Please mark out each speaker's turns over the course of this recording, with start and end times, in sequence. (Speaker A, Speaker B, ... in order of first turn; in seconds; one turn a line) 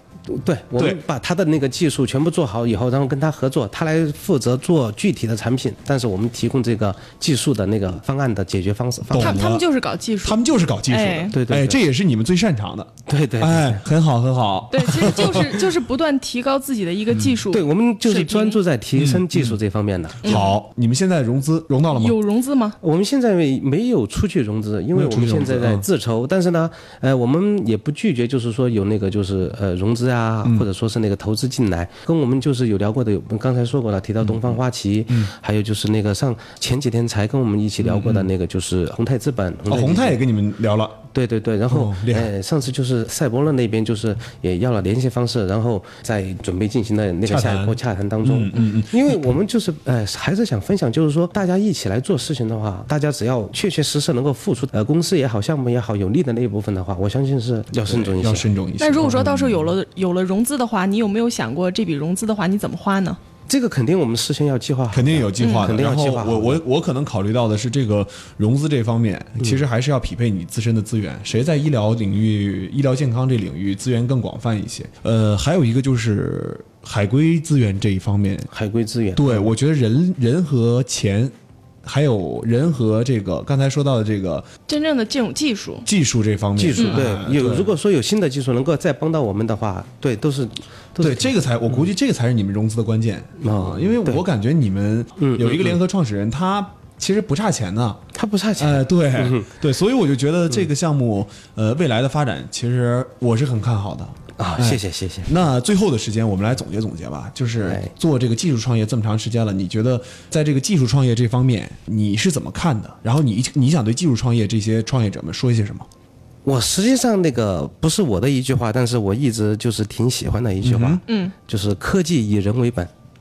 Speaker A: 0.3-9.4
Speaker B: 9.1-9.7
Speaker C: 9.1-11.3
Speaker B: 10.2-15.7
Speaker A: 11.3-11.8
Speaker A: 13.1-13.8
Speaker C: 14.7-18.6
Speaker A: 17.5-20.5
Speaker B: 18.9-19.6
Speaker C: 20.2-20.6
Speaker B: 20.2-22.2
Speaker C: 21.9-22.8
Speaker A: 22.8-40.2
Speaker B: 24.9-25.8
Speaker B: 34.2-34.5
Speaker B: 37.8-38.3
Speaker B: 39.7-41.0
Speaker A: 41.1-58.5
Speaker B: 41.7-42.3
Speaker B: 47.3-49.2
Speaker B: 57.8-59.7
Speaker C: 58.8-63.2
Speaker A: 63.5-66.6
Speaker B: 64.9-78.5
Speaker C: 65.4-65.7
Speaker A: 78.5-79.5
Speaker B: 79.2-81.3
Speaker B: 81.8-84.5
Speaker C: 84.7-85.8
Speaker B: 85.8-87.7
Speaker A: 86.6-91.9
Speaker B: 91.0-98.0
Speaker A: 93.4-94.2
Speaker A: 95.2-95.8
Speaker A: 98.1-99.5
Speaker B: 98.6-115.8
Speaker A: 104.4-105.3
Speaker A: 107.6-107.9
Speaker A: 116.4-122.9
Speaker B: 120.6-121.0
Speaker C: 121.1-121.3